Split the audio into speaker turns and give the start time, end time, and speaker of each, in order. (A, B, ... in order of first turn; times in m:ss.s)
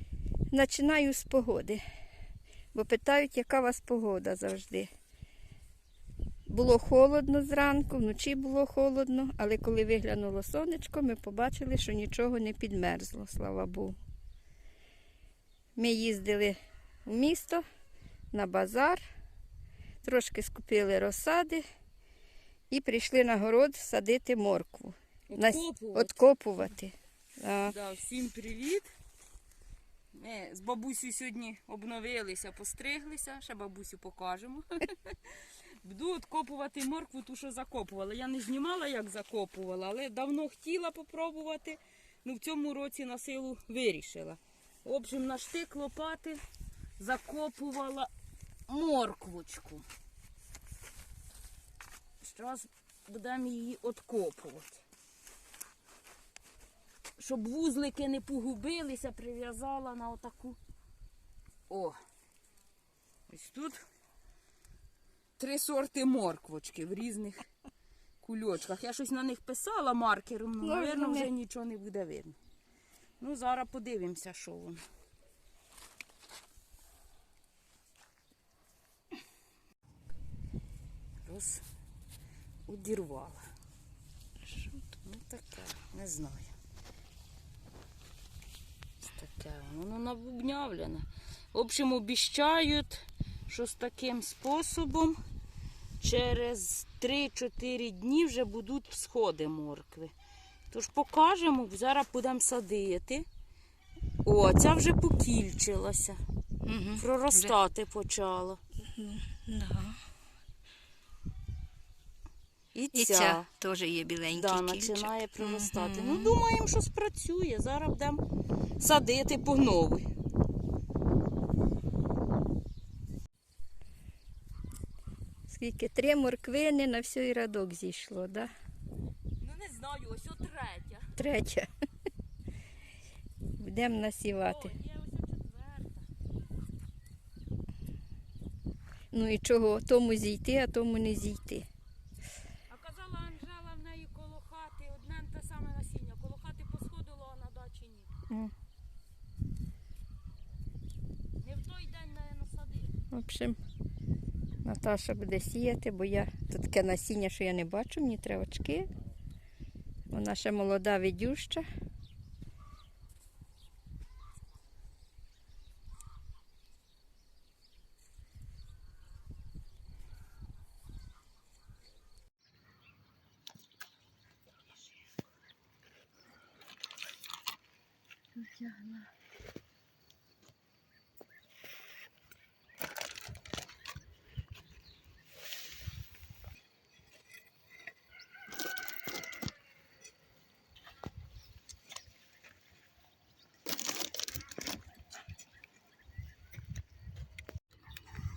0:00.5-0:01.8 A
0:02.7-0:04.9 A
0:06.5-0:14.0 A
0:15.8-0:17.6 A
0:18.3-0:19.0 A
0:20.0-0:21.6 A
0:22.7-0:27.8 A
0:25.3-0:26.2 B
0:27.7-0:28.9 B
0:30.1-0:46.4 B
0:47.0-0:48.1 B
0:48.7-0:49.9 B
0:52.2-0:54.8 B
0:57.2-1:00.6 B
1:01.7-1:02.0 B
1:03.3-1:03.8 B
1:05.4-1:07.5 B
1:08.2-1:12.4 B
1:10.6-1:11.3 A
1:13.2-1:14.8 B
1:21.2-1:21.6 B
1:22.7-1:23.4 B
1:24.4-1:24.8 A
1:25.0-1:26.5 B
1:29.0-1:35.2 B
1:36.0-1:40.1 B
1:40.7-1:43.3 B
1:44.2-1:46.2 B
1:46.6-1:47.6 A
1:47.0-1:48.6 B
1:48.9-1:50.0 A
1:52.7-1:53.5 B
1:52.9-1:56.4 A
1:54.3-1:58.2 B
1:58.8-2:00.1 B
2:05.5-2:08.5 A
2:09.4-2:11.1 B
2:11.2-2:11.7 A
2:13.6-2:14.8 A
2:14.4-2:16.1 B
2:19.1-2:21.7 A
2:22.7-2:28.1 B
2:31.4-2:32.9 B
2:33.1-2:33.6 A
2:34.6-2:38.9 A
2:40.1-2:41.6 A
2:58.4-2:59.1 B